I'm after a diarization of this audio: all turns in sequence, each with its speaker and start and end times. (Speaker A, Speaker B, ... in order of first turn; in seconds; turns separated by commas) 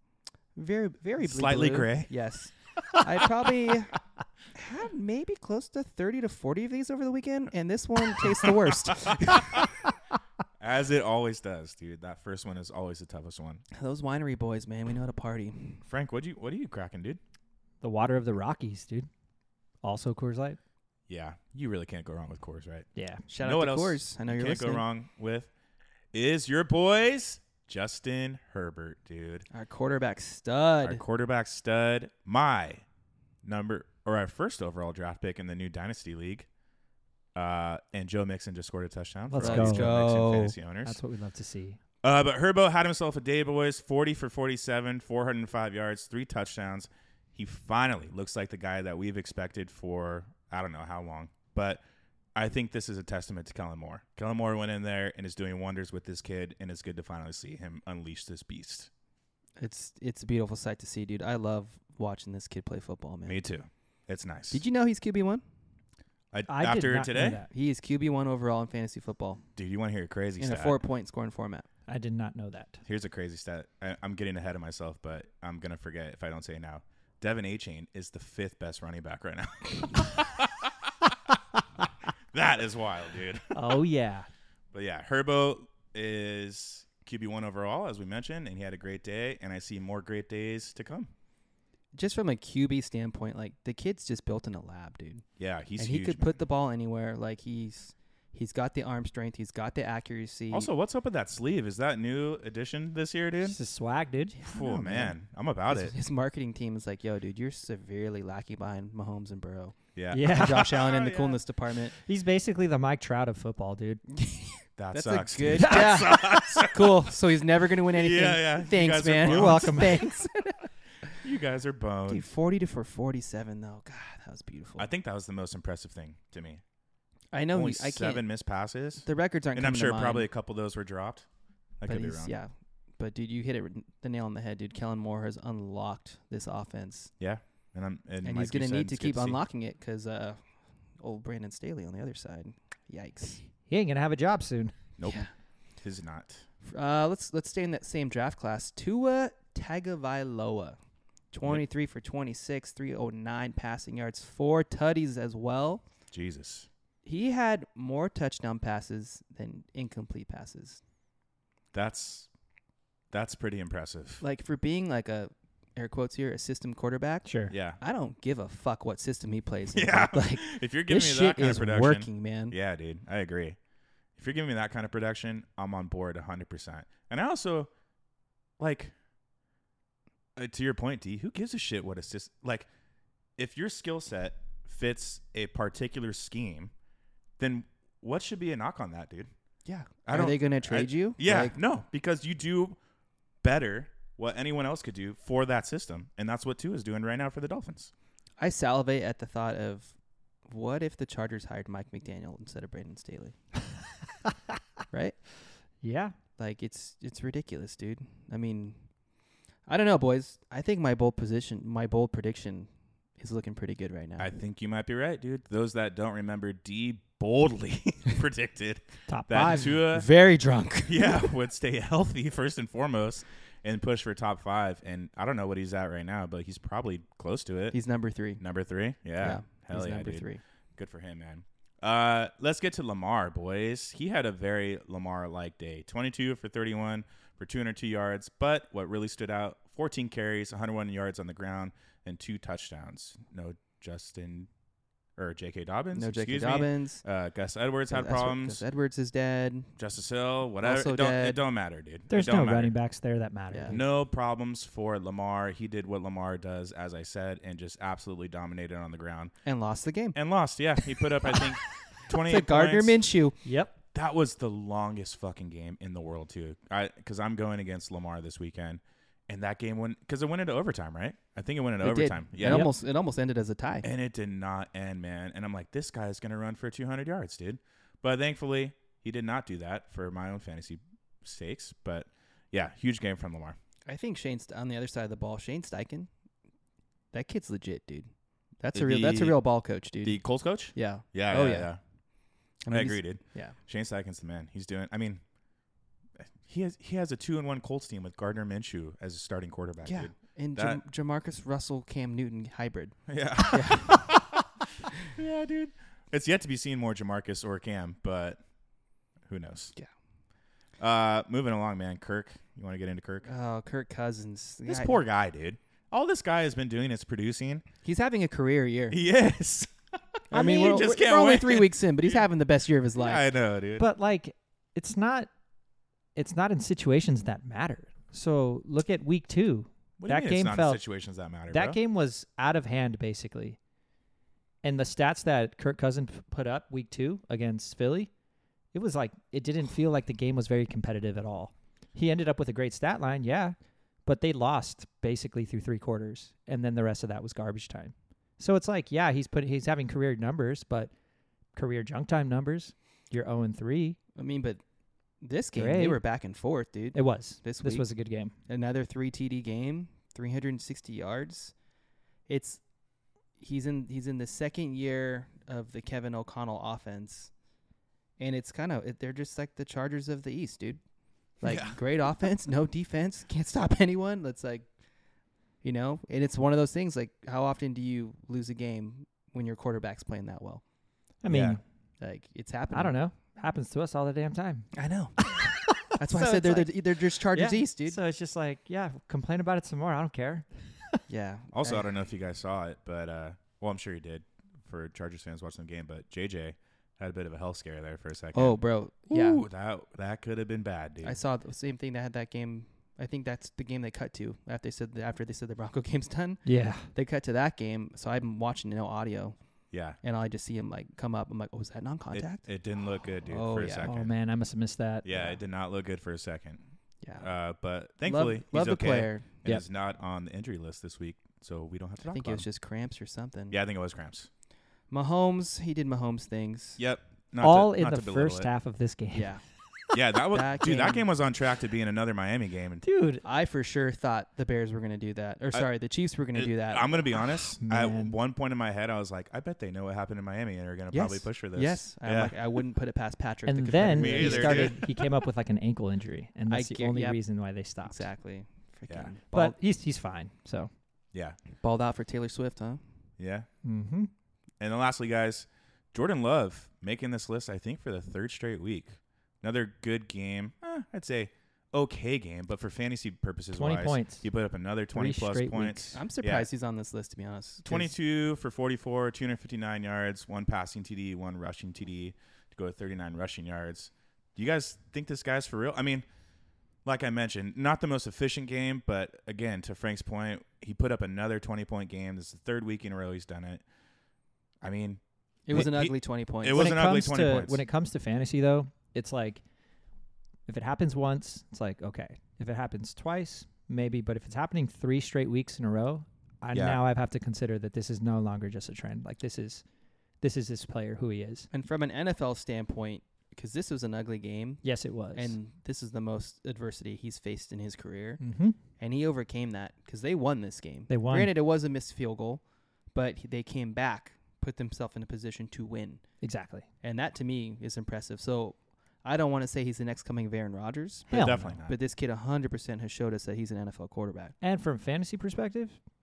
Speaker A: 0.5-3.9, Speaker B: 1.2-2.1, Speaker B: 2.8-3.5, Speaker A: 4.5-9.7, Speaker B: 8.2-9.7, Speaker B: 10.6-13.6, Speaker A: 13.7-15.8, Speaker B: 15.8-17.2, Speaker C: 17.8-19.1, Speaker C: 19.8-20.6, Speaker B: 21.1-22.9, Speaker C: 22.9-23.2, Speaker A: 23.3-24.8, Speaker B: 23.4-25.5, Speaker B: 26.1-29.4, Speaker A: 29.5-31.0, Speaker B: 30.8-32.8, Speaker B: 33.4-36.5, Speaker B: 37.3-41.0, Speaker C: 39.3-40.0, Speaker A: 39.4-40.5, Speaker C: 40.8-41.8, Speaker B: 42.0-51.8, Speaker B: 52.3-58.9, Speaker A: 59.6-63.4, Speaker B: 63.2-64.6, Speaker A: 64.5-65.4, Speaker B: 66.3-67.4, Speaker C: 66.5-67.5, Speaker A: 67.5-69.4, Speaker B: 69.5-70.8, Speaker A: 70.4-71.7, Speaker C: 71.9-72.8, Speaker B: 72.8-81.4, Speaker B: 82.3-83.8, Speaker C: 83.5-84.3, Speaker B: 84.7-91.1, Speaker A: 91.9-95.2, Speaker B: 95.4-96.3, Speaker A: 95.8-100.7, Speaker B: 100.5-103.6, Speaker C: 103.4-104.3, Speaker A: 104.3-105.2, Speaker B: 104.4-105.9, Speaker A: 105.7-111.9, Speaker B: 110.0-111.4, Speaker C: 110.1-110.8, Speaker C: 112.0-114.0, Speaker A: 114.1-120.6, Speaker B: 114.8-117.0, Speaker C: 115.5-116.3, Speaker B: 117.9-120.0, Speaker C: 119.2-120.1, Speaker B: 121.2-122.2, Speaker A: 122.1-124.9, Speaker B: 124.8-126.6, Speaker A: 127.3-128.2, Speaker B: 127.5-131.3, Speaker A: 129.0-130.3, Speaker B: 131.8-132.3, Speaker A: 131.8-137.1, Speaker B: 137.2-139.4, Speaker A: 138.2-140.4, Speaker A: 141.0-143.4, Speaker C: 143.7-144.7, Speaker B: 145.0-145.2, Speaker A: 145.0-145.3, Speaker B: 145.8-146.4, Speaker A: 146.6-150.8, Speaker A: 151.3-155.8, Speaker B: 156.1-156.7, Speaker A: 157.0-160.8, Speaker B: 161.7-162.3, Speaker B: 163.1-164.2, Speaker A: 164.2-172.5, Speaker C: 167.2-167.5, Speaker B: 167.5-167.8, Speaker B: 169.7-173.6, Speaker B: 174.2-177.7, Speaker B: 178.6-178.9, Speaker B: 180.3-182.7, Speaker B: 183.4-186.7, Speaker B: 187.4-189.3, Speaker A: 189.7-191.8, Speaker B: 190.1-192.8, Speaker B: 193.4-197.9, Speaker A: 198.4-199.9, Speaker A: 200.5-203.3, Speaker C: 205.8-206.1, Speaker A: 206.4-208.8, Speaker A: 209.7-214.3, Speaker B: 214.2-220.1, Speaker C: 219.1-219.8, Speaker A: 219.3-221.3, Speaker B: 220.8-227.8, Speaker A: 227.7-228.4, Speaker B: 228.4-244.5, Speaker A: 229.2-230.4, Speaker B: 245.2-248.6, Speaker A: 245.9-247.0, Speaker A: 247.9-249.7, Speaker B: 249.8-252.7, Speaker A: 250.6-251.4, Speaker C: 252.1-253.8, Speaker A: 253.5-253.8, Speaker B: 253.7-259.3, Speaker A: 259.4-260.1, Speaker B: 260.1-263.0, Speaker A: 262.2-263.4, Speaker C: 263.4-263.7, Speaker B: 263.9-272.7, Speaker A: 271.8-273.9, Speaker C: 272.4-272.7, Speaker B: 273.8-283.6, Speaker A: 283.9-286.1, Speaker A: 287.1-288.1, Speaker A: 288.6-290.2, Speaker B: 288.7-289.4, Speaker B: 290.0-291.8, Speaker A: 290.7-291.7, Speaker A: 292.6-293.6, Speaker B: 292.7-295.2, Speaker B: 296.2-300.8, Speaker A: 299.8-304.1, Speaker B: 303.1-304.4, Speaker B: 305.1-308.4, Speaker B: 309.2-309.7, Speaker B: 310.8-313.3, Speaker A: 313.2-315.0, Speaker B: 314.6-317.6, Speaker A: 317.8-319.0, Speaker B: 318.9-319.7, Speaker A: 320.3-323.3, Speaker B: 320.3-322.2, Speaker C: 320.3-320.9, Speaker B: 323.0-323.9, Speaker C: 323.8-325.3, Speaker C: 326.1-330.8, Speaker B: 330.0-331.8, Speaker C: 331.5-333.6, Speaker C: 334.6-338.1, Speaker C: 338.7-350.9, Speaker C: 351.5-354.0, Speaker A: 354.1-354.6, Speaker A: 355.2-357.9, Speaker C: 355.5-356.0, Speaker C: 356.9-358.3, Speaker A: 358.5-361.5, Speaker A: 362.3-362.6, Speaker A: 363.4-367.3, Speaker A: 368.2-370.8, Speaker A: 371.4-374.7, Speaker B: 371.4-371.8, Speaker A: 375.6-380.6, Speaker C: 381.2-381.6, Speaker B: 381.3-381.6, Speaker A: 382.0-382.9, Speaker C: 382.7-391.0, Speaker A: 384.7-388.0, Speaker A: 391.1-391.9, Speaker B: 391.5-401.2, Speaker A: 398.3-399.4, Speaker A: 401.0-409.4, Speaker C: 406.4-406.9, Speaker B: 409.7-410.0, Speaker A: 410.0-412.5, Speaker B: 412.1-414.1, Speaker A: 413.3-413.9, Speaker C: 413.8-415.1, Speaker B: 415.0-416.6, Speaker A: 417.0-417.3, Speaker B: 417.2-422.4, Speaker A: 418.0-419.3, Speaker A: 422.1-423.6, Speaker B: 423.5-424.3, Speaker A: 424.9-426.8, Speaker B: 426.8-428.5, Speaker C: 427.4-429.3, Speaker A: 429.1-429.4, Speaker B: 429.9-432.8, Speaker A: 430.3-431.1, Speaker C: 432.8-433.2, Speaker A: 433.2-437.2, Speaker B: 436.3-442.4, Speaker C: 437.6-438.1, Speaker A: 440.9-444.8, Speaker C: 443.5-448.1, Speaker B: 443.9-445.1, Speaker A: 446.5-447.2, Speaker A: 447.8-449.6, Speaker B: 448.9-449.1, Speaker C: 449.3-450.7, Speaker B: 451.1-451.4, Speaker A: 451.6-452.8, Speaker B: 453.2-453.5, Speaker C: 453.6-454.1, Speaker B: 454.6-466.5, Speaker C: 463.5-464.2, Speaker C: 464.9-466.0, Speaker A: 465.9-467.9, Speaker B: 467.6-476.1, Speaker B: 476.8-483.6, Speaker B: 484.6-485.0, Speaker A: 485.5-486.8, Speaker B: 485.5-487.6, Speaker C: 486.5-489.4, Speaker C: 490.5-499.6, Speaker B: 496.5-496.8, Speaker C: 500.2-501.5, Speaker A: 501.5-508.2, Speaker C: 504.6-505.4, Speaker C: 508.2-508.6, Speaker A: 508.8-512.4, Speaker C: 510.9-511.3, Speaker A: 512.9-516.0, Speaker C: 516.2-516.6, Speaker A: 516.8-524.3, Speaker B: 521.1-521.8, Speaker C: 521.1-521.5, Speaker C: 524.4-525.8